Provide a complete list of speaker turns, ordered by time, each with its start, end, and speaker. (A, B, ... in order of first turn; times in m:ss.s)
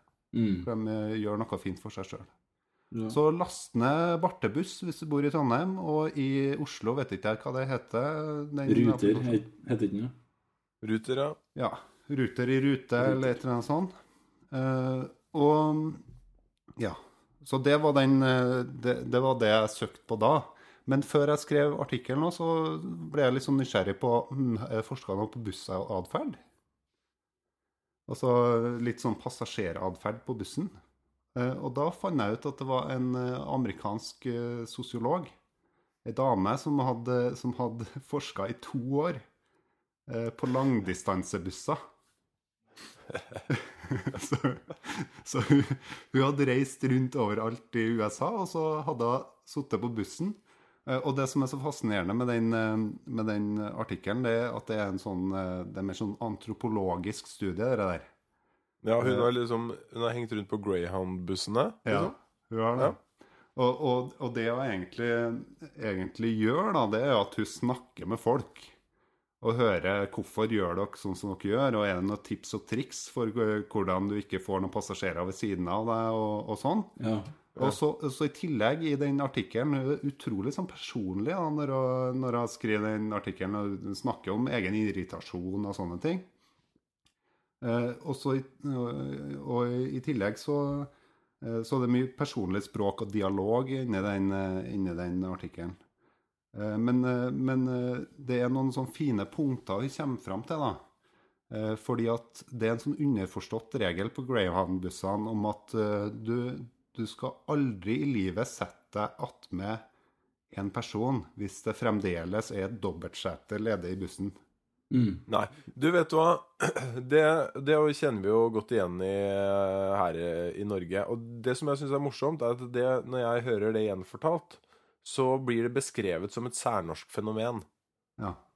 0:00.3-0:00.7 A
0:00.6-0:02.3 B
0:02.9-0:03.2 A
0:03.1-0:09.4 B
0:08.7-0:10.1 A
0:10.8-0:11.4 C
0:11.5-0:13.9 B
0:14.5-0:16.0 B
0:16.8-0:26.4 B
0:28.1-0:30.8 B
0:31.3-0:35.3 B
0:36.0-0:39.2 B
0:40.1-0:41.8 B
0:43.5-0:58.1 B
0:58.8-1:02.1 C
0:59.0-0:59.3 B
1:01.8-1:03.0 B
1:03.6-1:08.7 B
1:09.4-1:16.9 B
1:17.0-1:17.3 A
1:17.6-1:26.3 B
1:27.6-1:35.8 B
1:36.5-1:40.8 B
1:41.5-1:49.8 B
1:50.5-1:54.4 B
1:54.9-1:55.2 A
1:55.3-2:07.6 C